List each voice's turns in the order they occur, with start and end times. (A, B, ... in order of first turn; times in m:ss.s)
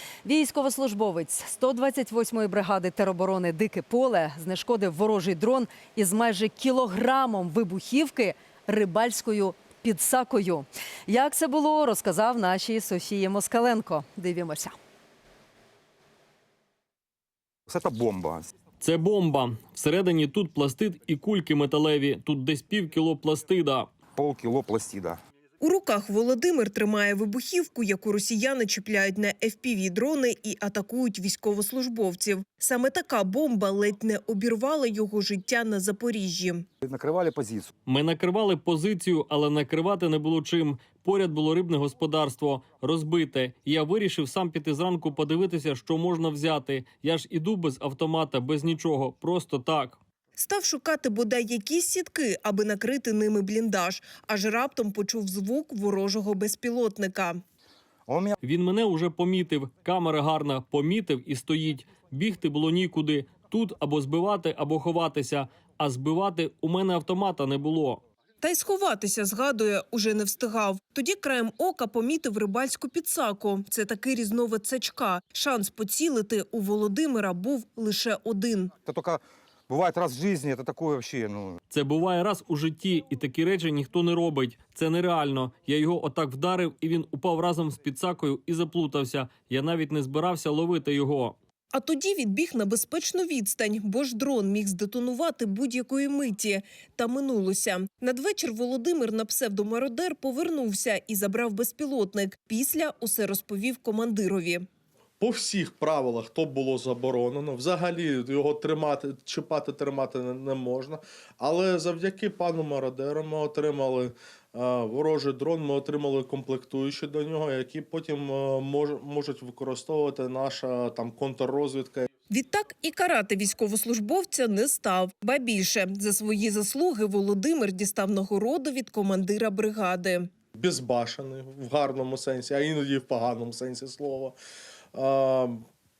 0:00.2-0:14.8 A
0:17.7-0:18.5 B
0:18.8-0:23.9 C
0:24.1-0:25.2 B
0:25.6-0:36.7 D
0:36.8-0:37.7 B
0:37.8-0:50.0 C
0:50.4-0:57.4 D
0:58.1-0:58.4 B
0:58.4-1:08.0 C
1:08.4-1:18.7 D
1:18.8-1:21.6 B
1:21.7-1:31.4 C
1:31.7-1:44.6 D
1:45.2-2:02.1 E
2:02.3-2:10.3 D
2:10.6-2:14.4 E
2:14.9-2:15.6 E